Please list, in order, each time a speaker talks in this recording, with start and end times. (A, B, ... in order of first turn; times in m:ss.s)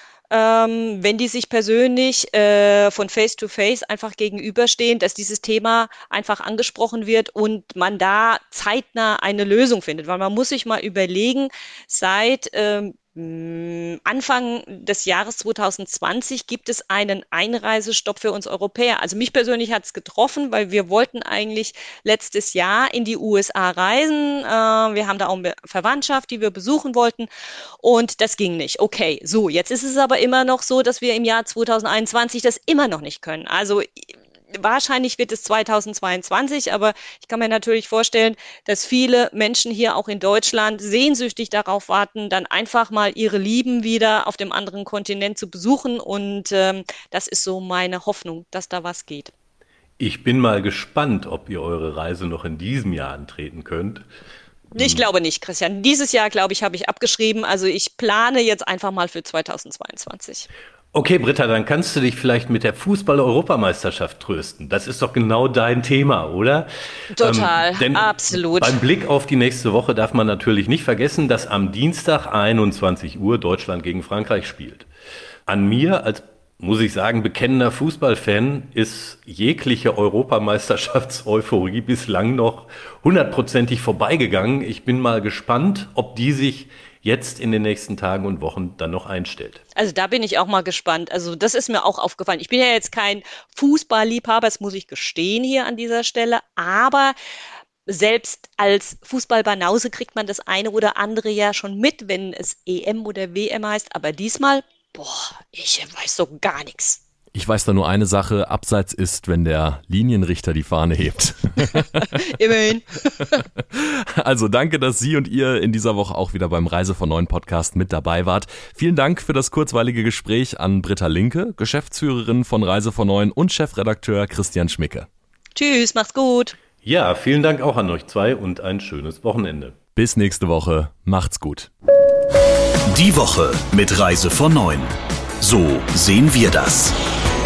0:00.3-0:27.3 A
0:27.8-0:49.3 A
0:50.0-0:54.0 B
0:54.7-1:00.5 A
0:54.8-0:55.0 B
1:00.9-1:14.9 B
1:07.1-1:08.8 A
1:15.5-1:29.6 B
1:29.8-1:37.2 A
1:37.9-1:47.0 A
1:47.3-1:52.1 C
1:52.0-1:53.4 A
1:53.7-2:05.1 C
2:05.6-2:06.6 A
2:06.8-2:09.8 B
2:10.0-2:11.7 C
2:12.9-2:17.0 D